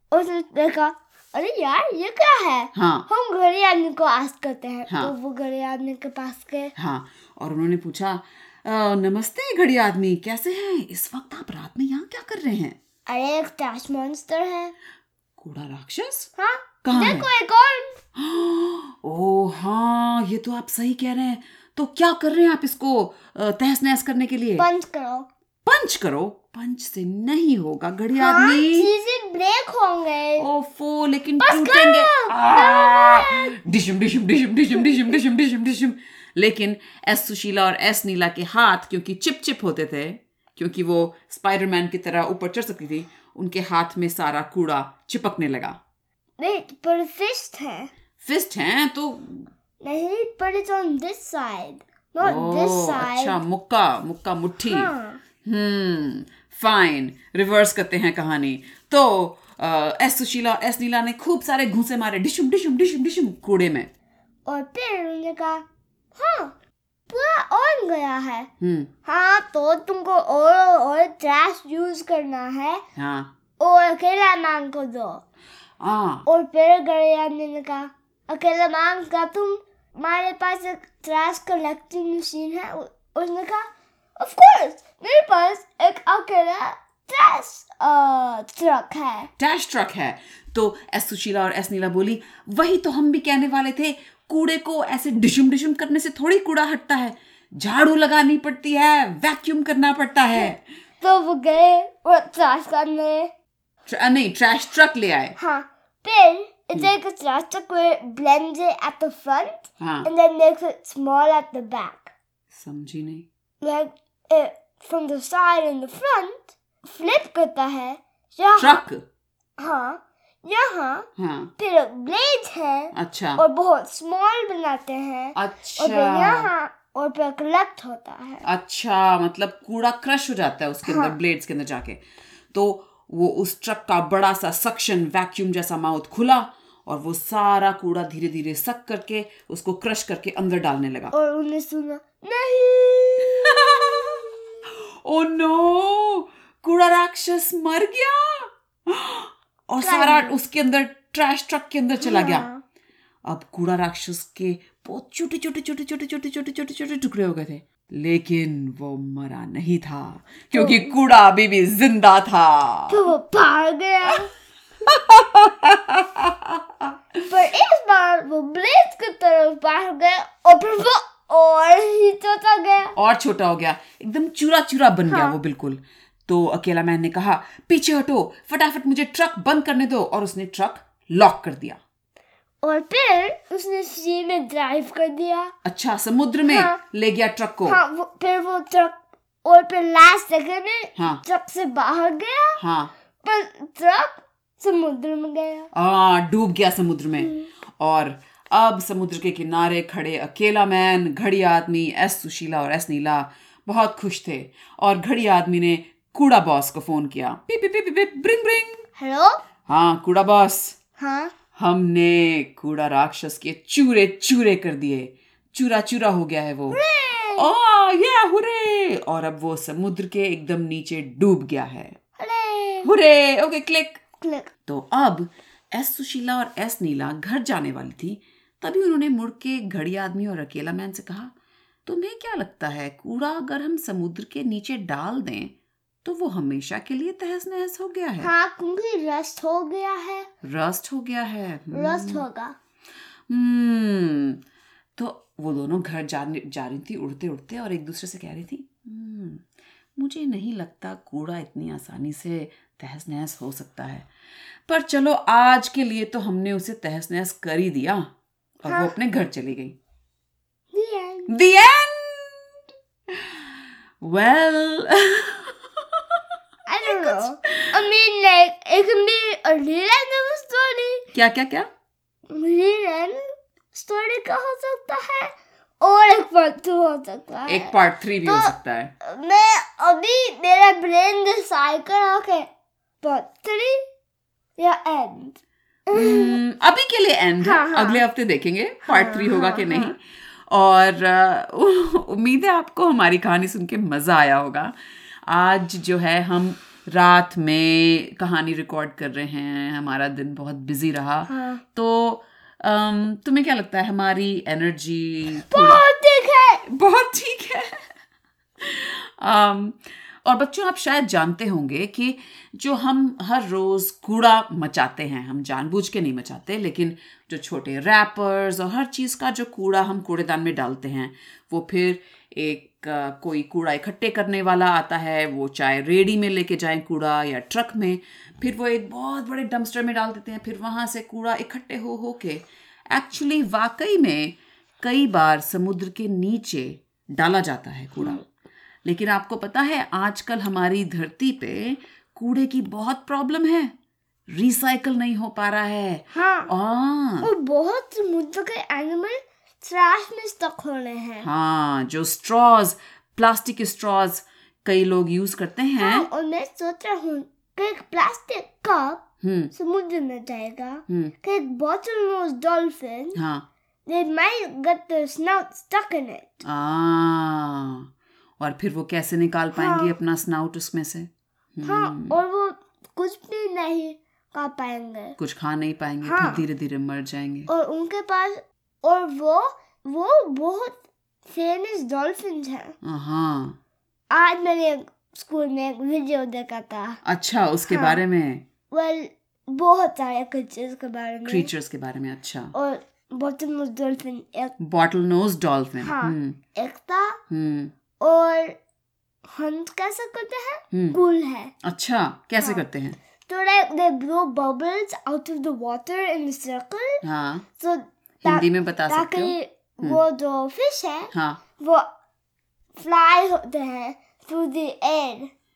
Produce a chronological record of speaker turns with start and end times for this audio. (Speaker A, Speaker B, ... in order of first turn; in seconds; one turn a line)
Speaker A: 0.1-6.7
Speaker B: 2.7-3.1
Speaker B: 6.8-12.8
Speaker A: 13.1-14.7
Speaker B: 15.4-16.3
Speaker A: 16.4-18.0
Speaker B: 16.8-17.3
Speaker B: 18.1-24.7
Speaker A: 24.6-25.3
Speaker B: 25.7-28.9
Speaker A: 28.2-30.5
Speaker B: 30.4-45.8
Speaker A: 31.4-33.5
Speaker A: 34.8-35.1
Speaker A: 46.4-47.9
Speaker B: 48.2-49.5
Speaker A: 49.8-53.4
Speaker B: 52.2-54.9
Speaker A: 54.6-55.2
Speaker B: 55.4-63.9
Speaker A: 64.5-65.6
Speaker A: 66.2-66.5
Speaker A: 67.1-68.5
Speaker B: 68.6-68.9
Speaker A: 69.0-72.8
Speaker B: 73.0-73.3
Speaker A: 73.6-75.2
Speaker B: 75.8-76.3
Speaker A: 76.3-83.7
Speaker A: 84.2-89.3
Speaker B: 89.4-100.6
Speaker A: 101.0-103.3
Speaker B: 103.9-105.4
Speaker A: 105.4-112.1
Speaker B: 109.8-110.1
Speaker B: 112.5-113.3
Speaker A: 113.6-118.8
Speaker B: 118.6-119.0
Speaker A: 119.6-128.4
Speaker B: 121.2-121.5
Speaker B: 122.9-123.4
Speaker B: 125.3-126.5
Speaker B: 128.4-132.0
Speaker A: 130.9-131.2
Speaker B: 132.5-141.1
Speaker A: 141.1-144.3
Speaker B: 143.4-144.2
Speaker B: 144.9-152.5
Speaker A: 149.8-150.4
Speaker A: 152.0-152.6
Speaker B: 153.2-163.1
Speaker A: 160.6-160.9
Speaker A: 162.9-164.3
Speaker B: 164.8-167.3
Speaker A: 167.3-172.9
Speaker B: 172.9-181.8
Speaker A: 175.1-175.3
Speaker A: 182.6-185.5
Speaker B: 185.6-187.8
Speaker A: 186.5-186.8
Speaker A: 187.7-192.6
Speaker B: 191.0-191.2
Speaker B: 192.6-192.9
Speaker A: 193.2-195.7
Speaker B: 195.7-208.9
Speaker A: 197.2-197.5
Speaker A: 209.0-209.4
Speaker B: 209.7-210.8
Speaker A: 211.0-211.3
Speaker B: 211.6-216.8
Speaker A: 216.7-217.5
Speaker B: 217.4-222.0
Speaker A: 222.2-222.9
Speaker B: 222.8-224.0
Speaker A: 224.2-224.5
Speaker B: 224.7-231.3
Speaker B: 231.9-235.5
Speaker B: 236.0-238.3
Speaker A: 238.2-240.3
Speaker B: 240.4-242.2
Speaker A: 241.7-242.6
Speaker B: 243.3-244.4
Speaker B: 245.0-254.1
Speaker B: 254.7-258.1
Speaker B: 258.6-259.8
Speaker A: 258.7-258.9
Speaker A: 260.7-261.3
Speaker B: 261.3-263.5
Speaker B: 264.0-266.2
Speaker A: 266.7-271.1
Speaker B: 266.8-267.8
Speaker B: 271.1-271.7
Speaker A: 272.3-282.5
Speaker B: 277.5-278.9
Speaker A: 283.0-283.9
Speaker A: 284.6-286.4
Speaker B: 285.9-294.8
Speaker A: 287.4-288.0
Speaker A: 288.9-289.9
Speaker B: 295.3-305.8
Speaker A: 301.3-301.6
Speaker A: 305.4-306.6
Speaker B: 306.6-307.9
Speaker B: 308.6-338.2
Speaker B: 338.9-343.7
Speaker B: 344.3-347.3
Speaker A: 346.1-346.5
Speaker A: 347.2-351.3
Speaker B: 351.2-356.1
Speaker A: 355.8-363.2
Speaker B: 359.2-359.5
Speaker B: 363.1-363.5
Speaker A: 363.9-366.4
Speaker B: 366.4-372.2
Speaker A: 369.6-369.9
Speaker A: 371.6-375.2
Speaker B: 375.2-377.5
Speaker A: 376.0-376.4
Speaker A: 377.5-382.8
Speaker B: 382.8-383.6
Speaker A: 384.1-387.0
Speaker B: 387.0-388.4
Speaker A: 387.7-388.0
Speaker A: 388.7-391.5
Speaker B: 391.3-392.5
Speaker A: 392.5-394.6
Speaker B: 394.6-396.4
Speaker A: 395.8-397.2
Speaker B: 397.3-397.7
Speaker A: 398.0-398.6
Speaker A: 399.3-401.5
Speaker B: 400.7-401.0
Speaker B: 401.6-403.0
Speaker A: 403.3-407.0
Speaker B: 407.0-407.4
Speaker A: 407.6-411.9
Speaker B: 408.2-410.0
Speaker B: 411.1-411.4
Speaker A: 412.8-415.3